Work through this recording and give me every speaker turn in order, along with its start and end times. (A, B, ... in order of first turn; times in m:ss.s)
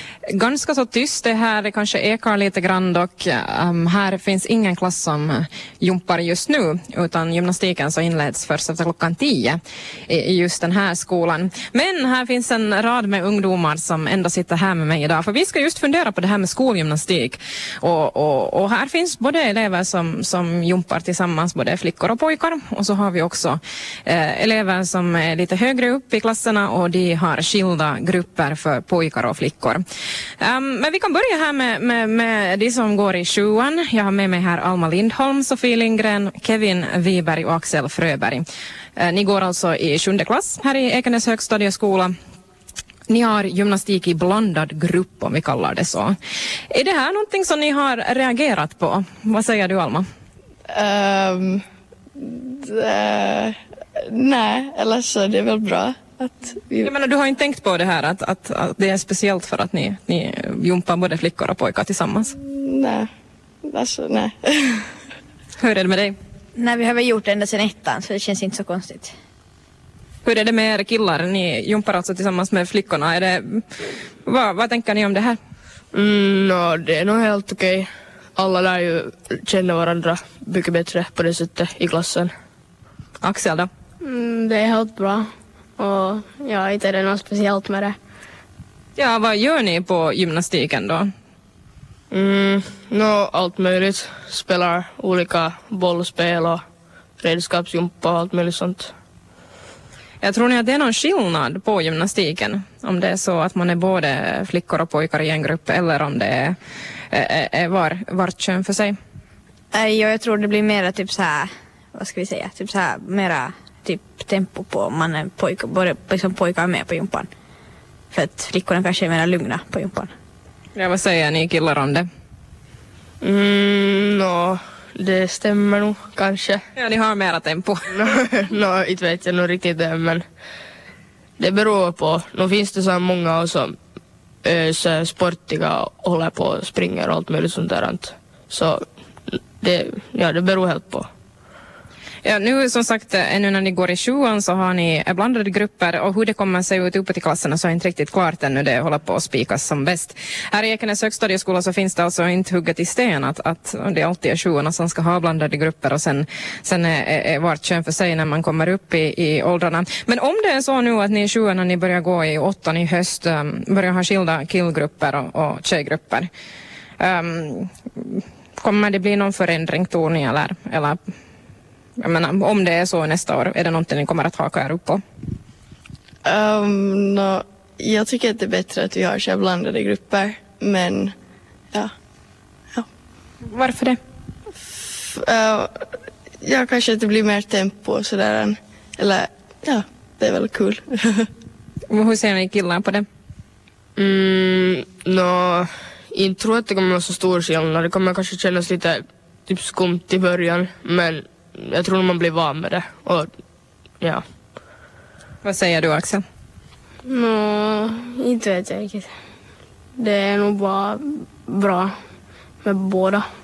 0:00.3-0:29.8 A
0:30.4-0:38.4 A
0:39.0-0:42.1 A
0:43.1-0:46.1 A
0:46.7-0:50.0 A
0:50.7-0:51.6 B
0:52.2-0:53.6 B
0:54.1-0:56.9 B
0:56.8-1:02.3 A
1:02.6-1:03.1 B
1:03.7-1:04.8 B
1:05.6-1:06.2 A
1:06.6-1:09.1 C
1:10.2-1:13.6 A
1:14.2-1:15.4 A
1:15.9-1:22.3 D
1:23.2-1:23.7 A
1:24.0-1:28.0 E
1:29.0-1:31.1 A
1:32.1-1:36.6 D
1:37.2-1:38.9 D
1:40.2-1:46.6 A
1:47.1-1:49.0 A
1:49.7-1:57.3 C
1:58.1-2:00.1 C
2:00.8-2:02.0 A
2:03.2-2:06.6 D
2:06.8-2:07.8 A
2:07.9-2:10.2 D
2:11.4-2:13.8 D
2:14.4-2:21.1 D
2:22.2-2:46.3 A
2:47.0-2:51.0 A
2:52.0-2:55.0 A
2:56.2-3:01.1 B
3:03.4-3:04.0 A
3:05.1-3:05.7 B
3:06.4-3:11.3 B
3:11.9-3:13.0 A
3:14.0-3:23.3 D
3:25.4-3:26.2 A
3:27.1-3:29.1 E
3:30.0-3:31.9 E
3:32.6-3:33.2 E